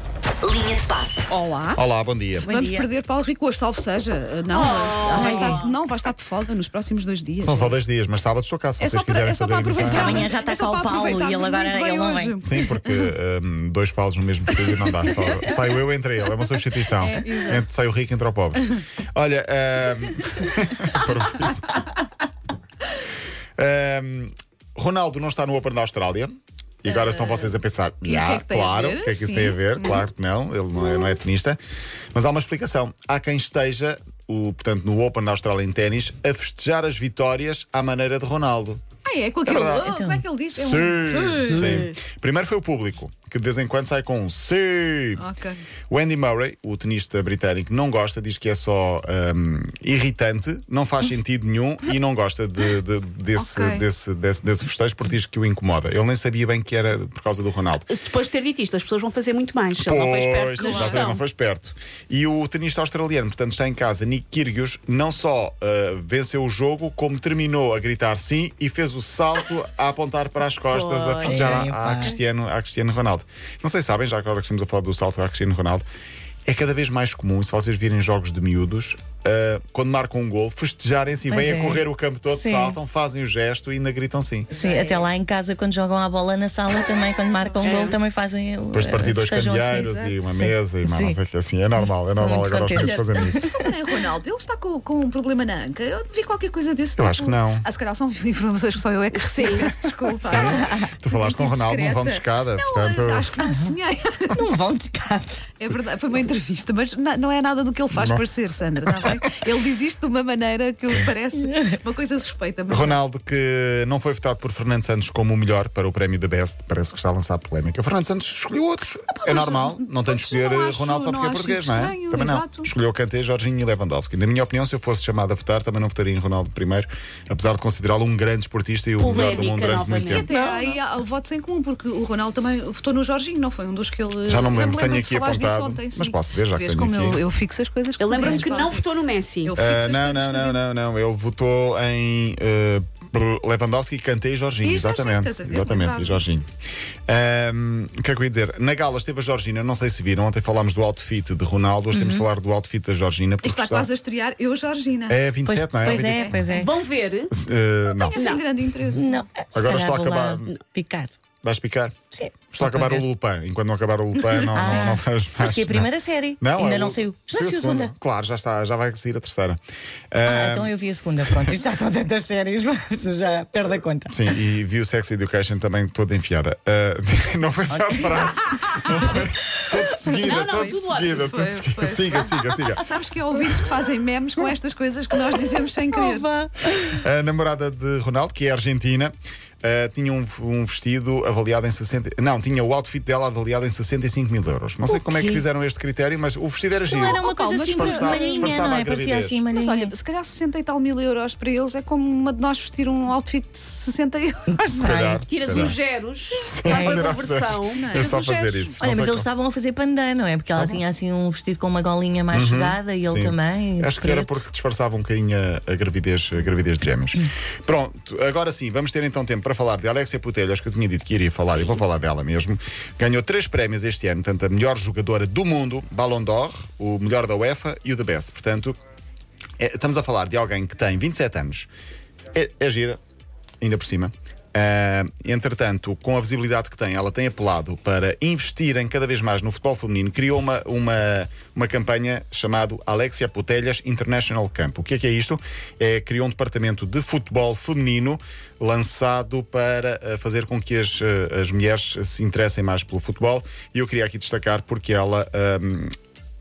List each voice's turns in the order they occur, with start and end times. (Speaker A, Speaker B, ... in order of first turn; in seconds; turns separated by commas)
Speaker A: 0.4-1.2, Speaker B: 1.3-1.8, Speaker C: 1.7-2.5, Speaker A: 2.4-2.9, Speaker B: 2.4-7.8, Speaker D: 4.5-5.7, Speaker C: 7.4-10.3, Speaker B: 8.8-13.0, Speaker A: 9.8-12.6, Speaker C: 12.4-21.8, Speaker A: 14.9-15.6, Speaker B: 17.1-17.6, Speaker C: 23.6-31.6, Speaker A: 26.9-27.3, Speaker B: 28.0-30.0, Speaker C: 32.1-38.8, Speaker B: 39.0-41.6, Speaker C: 39.5-39.9, Speaker A: 39.8-40.2, Speaker C: 40.5-45.2, Speaker D: 41.5-41.9, Speaker B: 45.2-45.6, Speaker C: 45.9-57.9, Speaker B: 53.3-53.9, Speaker D: 57.9-61.2, Speaker C: 59.8-75.9, Speaker B: 60.6-61.1, Speaker D: 70.7-71.6, Speaker A: 71.2-72.2, Speaker C: 76.5-84.5, Speaker A: 81.3-82.8, Speaker A: 84.5-91.2, Speaker B: 84.5-85.1, Speaker B: 87.6-87.9, Speaker C: 88.7-93.5, Speaker B: 89.8-90.2, Speaker A: 92.2-93.7, Speaker B: 92.7-104.4, Speaker C: 97.0-97.7, Speaker D: 99.1-99.7, Speaker C: 100.2-103.3, Speaker A: 104.3-105.7, Speaker B: 105.6-113.0, Speaker C: 107.9-108.2, Speaker A: 111.4-111.8, Speaker C: 112.7-130.7, Speaker B: 119.1-122.7, Speaker D: 129.0-130.3, Speaker B: 130.0-138.8, Speaker C: 134.2-137.2, Speaker D: 138.0-139.5, Speaker B: 139.4-140.6, Speaker C: 139.6-146.4, Speaker B: 144.6-146.2, Speaker C: 147.1-153.9, Speaker A: 151.9-152.3, Speaker B: 153.4-155.2, Speaker C: 155.1-156.5, Speaker A: 155.4-156.7, Speaker B: 155.8-156.3, Speaker D: 156.5-157.3, Speaker C: 157.3-158.2, Speaker B: 157.8-159.3, Speaker D: 158.1-158.4, Speaker A: 158.9-161.1, Speaker C: 159.5-160.6, Speaker C: 161.4-162.0, Speaker A: 162.1-163.0, Speaker C: 162.5-169.6, Speaker B: 164.3-164.9, Speaker A: 164.5-167.9, Speaker C: 170.1-170.7, Speaker A: 170.2-174.3, Speaker C: 171.2-171.5, Speaker C: 174.1-182.8, Speaker A: 177.7-179.9, Speaker B: 178.6-179.1, Speaker D: 180.2-181.2, Speaker B: 180.3-186.3, Speaker A: 185.9-187.0, Speaker C: 187.0-199.4, Speaker A: 194.9-195.4, Speaker B: 196.8-198.8, Speaker A: 196.8-199.9, Speaker B: 199.5-204.9, Speaker A: 204.5-205.7, Speaker C: 204.8-205.8, Speaker D: 205.3-208.7, Speaker B: 206.5-207.1, Speaker A: 206.6-207.2, Speaker C: 206.6-209.3, Speaker B: 207.7-208.2, Speaker A: 208.8-214.4, Speaker C: 212.3-228.8, Speaker C: 229.6-231.7, Speaker C: 232.3-233.0, Speaker C: 233.6-255.9